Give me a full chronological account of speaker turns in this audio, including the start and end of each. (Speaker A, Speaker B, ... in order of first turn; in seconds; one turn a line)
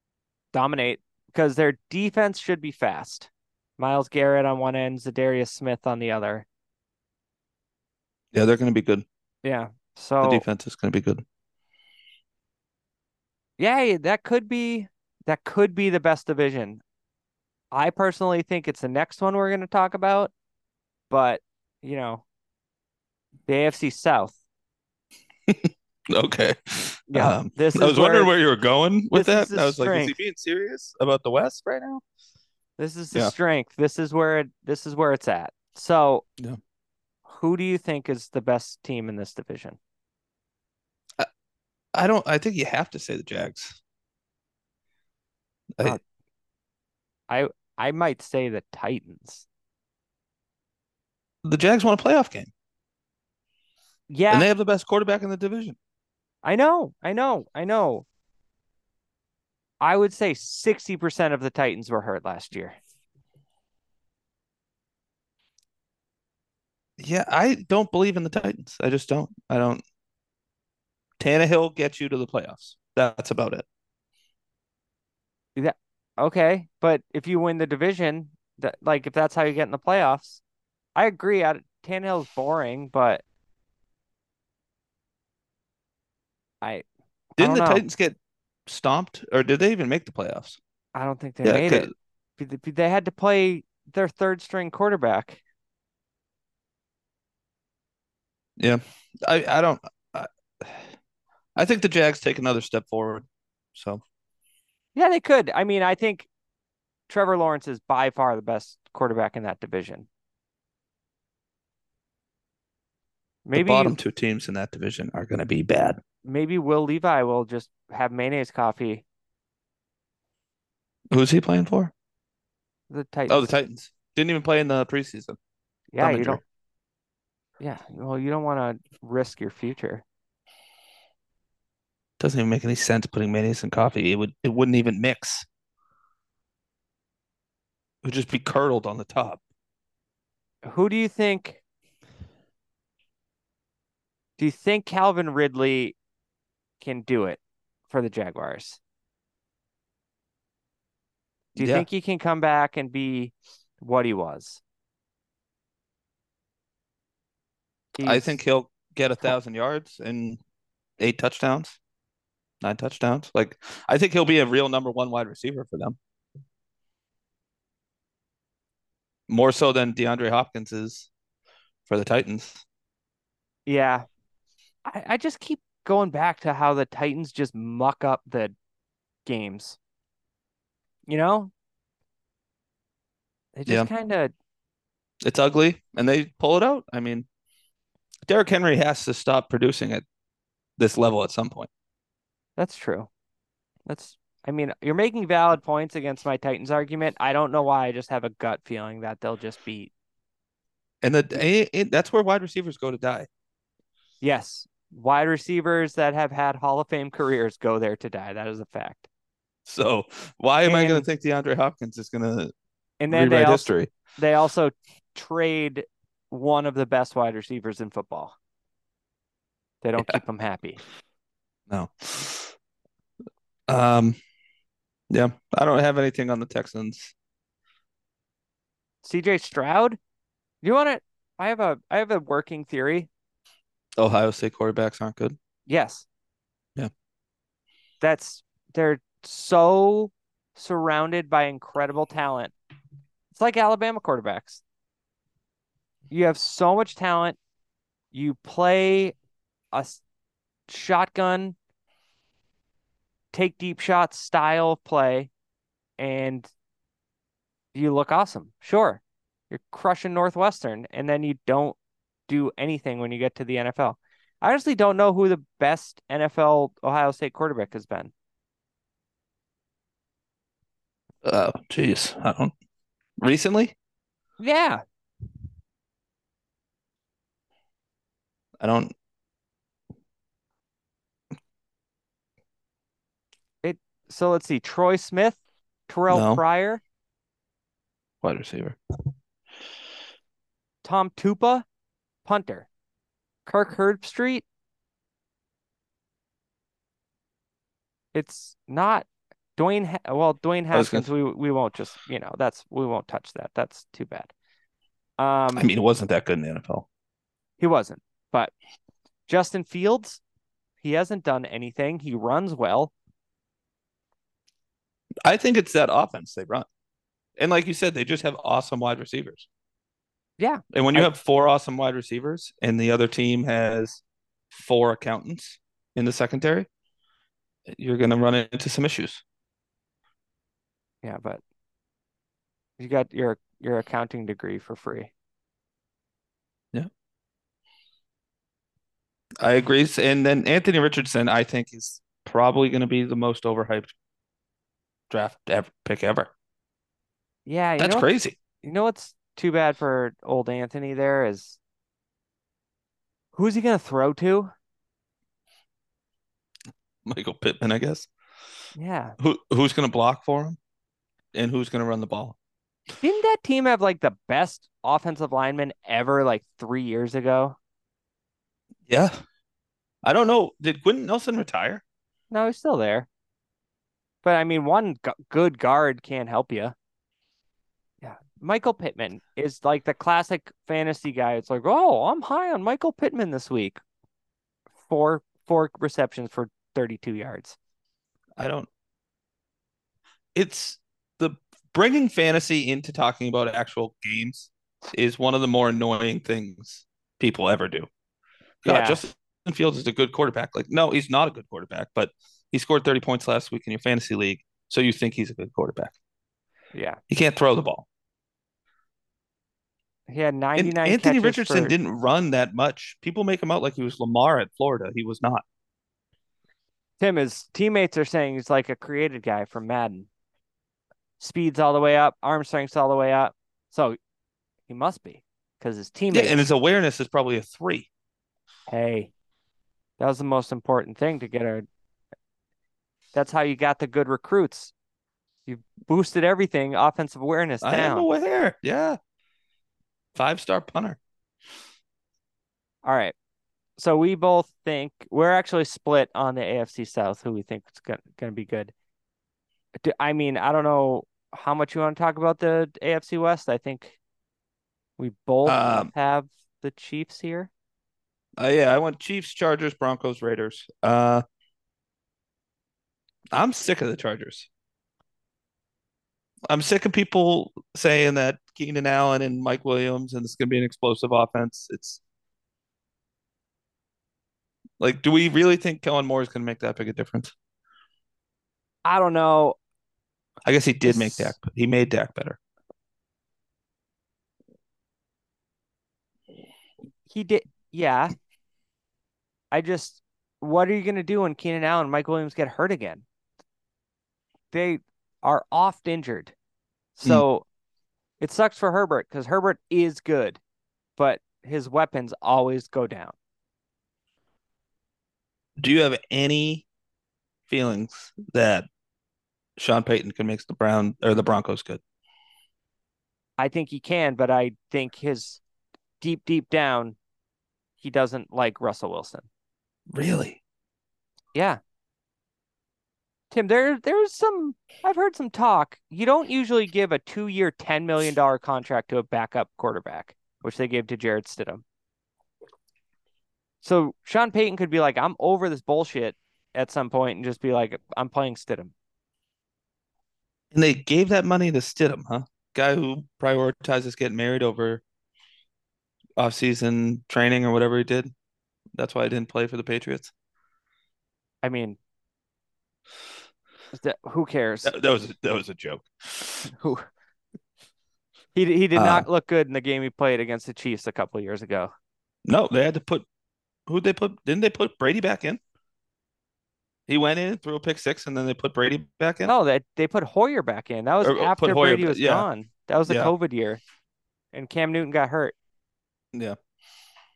Speaker A: 0.5-6.5
Speaker B: 8.3-9.0
Speaker A: 9.4-10.4
Speaker B: 10.2-11.2
Speaker A: 13.6-16.8
Speaker A: 17.7-20.3
Speaker A: 21.1-22.2
Speaker A: 23.5-24.4
Speaker B: 25.5-32.0
Speaker A: 27.1-28.3
Speaker A: 29.1-30.1
Speaker A: 32.8-36.2
Speaker A: 37.3-39.8
Speaker B: 41.9-43.8
Speaker A: 47.3-49.5
Speaker B: 51.4-52.5
Speaker A: 54.1-54.5
Speaker B: 54.3-55.8
Speaker A: 56.4-58.0
Speaker A: 59.8-62.8
Speaker B: 67.0-69.8
Speaker B: 71.2-73.7
Speaker A: 75.5-80.4
Speaker A: 81.0-83.2
Speaker A: 87.4-87.8
Speaker B: 87.4-90.6
Speaker A: 90.9-95.4
Speaker B: 91.4-91.9
Speaker B: 98.6-100.9
Speaker B: 101.5-104.0
Speaker A: 104.9-106.3
Speaker A: 107.1-110.1
Speaker A: 113.5-114.0
Speaker B: 113.5-116.0
Speaker A: 116.2-119.0
Speaker B: 121.1-121.9
Speaker A: 122.9-123.5
Speaker B: 123.3-125.4
Speaker A: 125.9-126.4
Speaker B: 126.0-126.4
Speaker A: 127.6-130.0
Speaker B: 132.2-135.4
Speaker B: 138.0-139.4
Speaker A: 140.6-141.6
Speaker A: 144.4-145.9
Speaker A: 146.8-148.8
Speaker B: 151.6-151.9
Speaker A: 151.6-154.6
Speaker A: 158.0-158.4
Speaker B: 158.0-160.4
Speaker B: 161.0-161.8
Speaker B: 162.6-166.0
Speaker B: 169.3-171.1
Speaker B: 171.9-172.6
Speaker A: 173.7-174.1
Speaker A: 174.8-178.5
Speaker A: 179.2-179.8
Speaker A: 181.1-181.5
Speaker A: 183.6-184.3
Speaker B: 185.2-187.3
Speaker B: 188.3-190.0
Speaker B: 190.8-191.7
Speaker A: 192.6-193.1
Speaker A: 193.8-199.9
Speaker B: 201.0-203.3
Speaker A: 204.2-209.1
Speaker B: 209.7-212.5
Speaker A: 210.6-211.1
Speaker A: 213.0-218.3
Speaker B: 213.1-213.9
Speaker A: 219.8-220.8
Speaker B: 221.7-222.5
Speaker B: 223.7-224.2
Speaker B: 225.1-227.1
Speaker A: 229.0-230.0
Speaker A: 230.6-233.1
Speaker B: 234.0-235.3
Speaker A: 235.7-236.1
Speaker A: 238.0-242.5
Speaker A: 243.3-244.6
Speaker A: 246.1-247.4
Speaker A: 248.1-249.1
Speaker A: 249.7-250.0
Speaker A: 250.7-251.5
Speaker A: 253.3-255.3
Speaker A: 256.0-256.5
Speaker A: 257.7-261.8
Speaker A: 262.3-268.1
Speaker B: 271.2-272.5
Speaker B: 273.2-273.7
Speaker A: 274.4-274.8
Speaker B: 278.6-278.9
Speaker A: 283.6-286.8
Speaker B: 286.1-286.4
Speaker B: 288.2-288.8
Speaker A: 290.8-291.6
Speaker A: 292.2-292.7
Speaker A: 293.4-294.4
Speaker A: 298.1-299.1
Speaker A: 299.6-304.3
Speaker B: 300.7-301.1
Speaker A: 305.2-305.7
Speaker B: 305.5-306.9
Speaker A: 307.6-308.5
Speaker A: 309.3-310.2
Speaker A: 310.8-312.9
Speaker B: 315.2-316.6
Speaker B: 317.4-319.5
Speaker A: 320.4-321.1
Speaker B: 320.7-326.7
Speaker B: 327.7-329.2
Speaker A: 331.0-331.4
Speaker A: 332.8-335.1
Speaker B: 339.4-343.9
Speaker B: 345.1-346.3
Speaker A: 347.4-348.1
Speaker B: 347.8-348.4
Speaker A: 348.6-351.6
Speaker A: 353.3-354.5
Speaker B: 357.1-358.1
Speaker A: 358.8-359.2
Speaker B: 359.2-360.6
Speaker B: 361.3-362.4
Speaker A: 363.0-367.6
Speaker B: 368.9-369.2
Speaker B: 370.0-371.8
Speaker A: 372.3-373.1
Speaker A: 374.2-376.7
Speaker A: 378.0-383.8
Speaker A: 384.9-387.6
Speaker B: 388.4-388.7
Speaker B: 390.3-397.9
Speaker B: 398.6-405.9
Speaker A: 398.6-399.0
Speaker A: 406.7-407.0
Speaker B: 407.1-407.9
Speaker A: 410.1-411.7
Speaker B: 410.6-415.4
Speaker A: 417.0-420.1
Speaker A: 421.2-424.0
Speaker A: 424.7-426.4
Speaker B: 426.1-427.9
Speaker A: 428.7-429.1
Speaker A: 430.0-431.7
Speaker A: 433.1-434.7
Speaker A: 435.5-438.1
Speaker B: 437.6-439.0
Speaker B: 440.1-441.0
Speaker A: 442.8-443.1
Speaker A: 443.8-448.7
Speaker A: 449.8-454.0
Speaker A: 455.0-457.5
Speaker B: 455.4-455.9
Speaker B: 458.4-461.2
Speaker B: 463.3-464.5
Speaker B: 466.5-472.0
Speaker B: 474.8-477.3
Speaker A: 478.8-479.6
Speaker B: 480.5-482.4
Speaker A: 480.9-481.4
Speaker A: 487.1-488.1
Speaker A: 489.5-493.0
Speaker A: 494.5-496.3
Speaker A: 496.9-497.4
Speaker A: 498.2-500.4
Speaker A: 501.0-503.1
Speaker B: 505.6-506.6
Speaker B: 507.5-508.7
Speaker B: 509.6-511.8
Speaker A: 513.4-515.4
Speaker A: 516.0-517.0
Speaker A: 517.8-519.3
Speaker B: 519.9-520.4
Speaker A: 521.3-521.6
Speaker A: 523.3-531.6
Speaker A: 533.6-538.7
Speaker B: 540.5-544.8
Speaker B: 546.2-548.1
Speaker B: 548.7-550.1
Speaker A: 551.4-551.8
Speaker A: 553.7-554.7
Speaker B: 554.6-556.5
Speaker A: 556.5-556.9
Speaker A: 558.3-561.7
Speaker B: 558.8-559.0
Speaker B: 562.2-563.0
Speaker B: 563.7-565.4
Speaker B: 566.9-569.3
Speaker A: 569.2-573.6
Speaker B: 571.0-572.3
Speaker B: 572.9-573.1
Speaker A: 574.3-575.3